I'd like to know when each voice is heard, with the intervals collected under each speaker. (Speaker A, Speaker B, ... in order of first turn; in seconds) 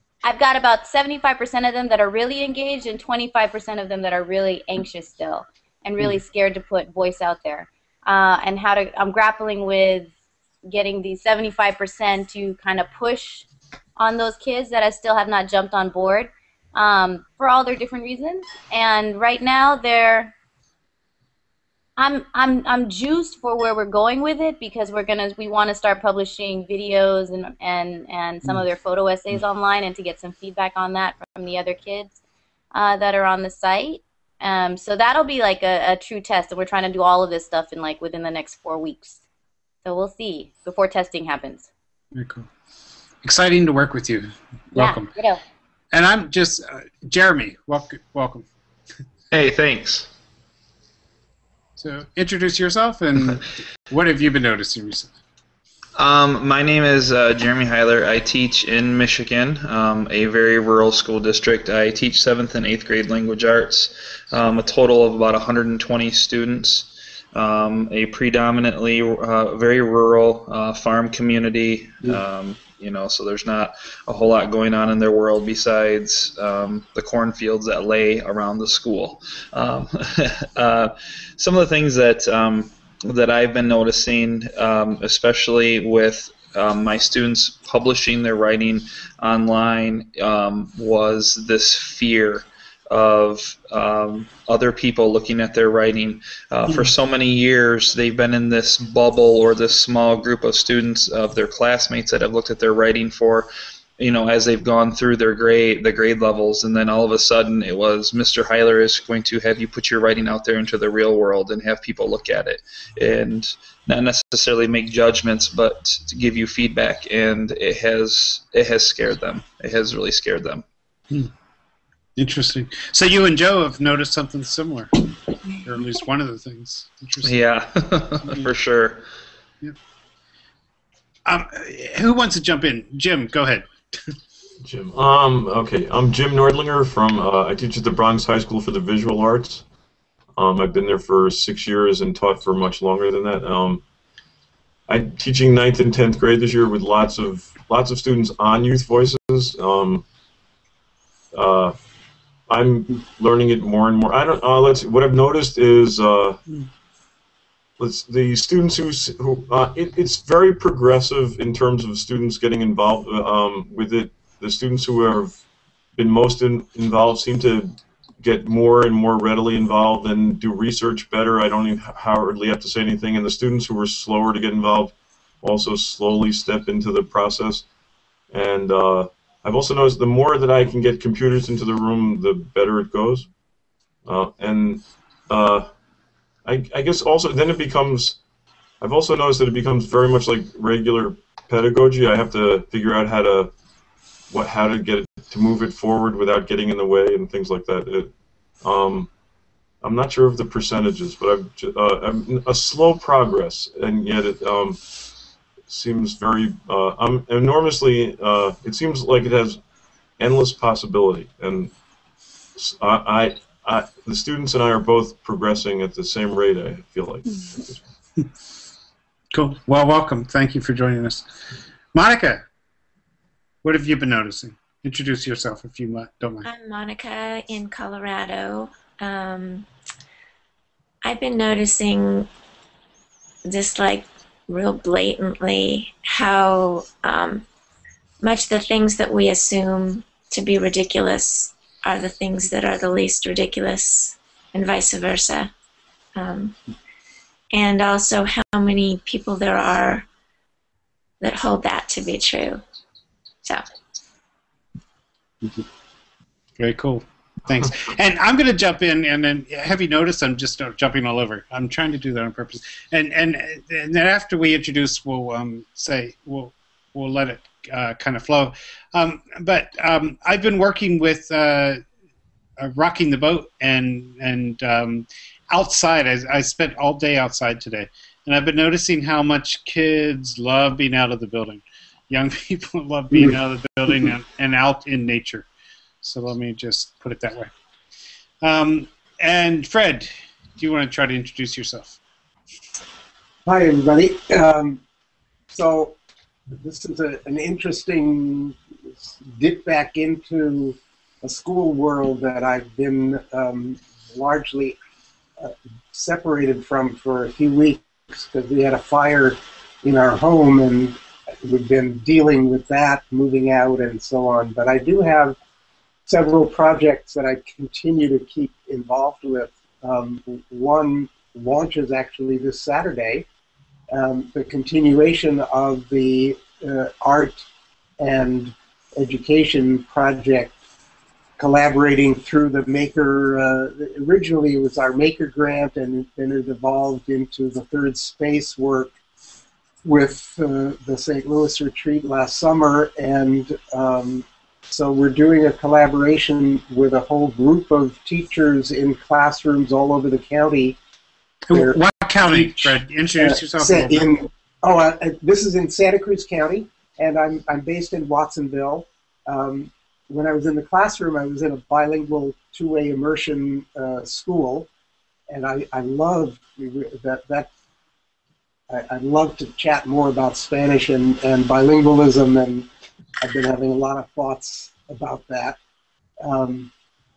Speaker A: 0.2-10.1, 10.7-13.5, 14.0-20.3, 22.0-32.1, 32.7-39.2, 39.9-41.7, 44.7-45.4
Speaker B: 42.1-42.5, 43.2-45.1, 45.9-48.5, 51.8-55.1, 122.2-124.9, 125.6-127.3, 131.3-134.1, 219.3-221.3, 221.9-222.4, 223.6-226.5, 256.6-271.8, 272.6-285.5, 286.0-287.5, 288.4-292.0, 351.5-354.1
Speaker C: 49.3-50.1, 56.0-120.6, 127.2-129.1
Speaker D: 134.6-139.7, 140.4-143.8, 144.9-150.1, 151.3-151.8, 152.5-156.4, 157.8-165.4, 165.9-177.7, 178.3-183.3, 184.1-185.7, 186.4-188.2, 188.8-193.5, 194.3-199.1, 199.8-204.8, 205.7-209.6, 210.2-211.7, 212.6-217.8
Speaker E: 226.4-229.7, 231.0-232.3, 233.5-237.4, 238.2-245.5, 246.2-246.6, 247.5-250.1, 251.2-252.6
Speaker F: 293.5-294.8, 295.5-296.0, 296.5-304.8, 305.4-315.4, 316.1-323.3, 323.9-327.4, 328.0-330.6, 331.4-338.9, 339.8-350.8, 351.5-364.7, 365.3-367.5, 368.7-372.7, 373.2-375.6, 376.2-376.7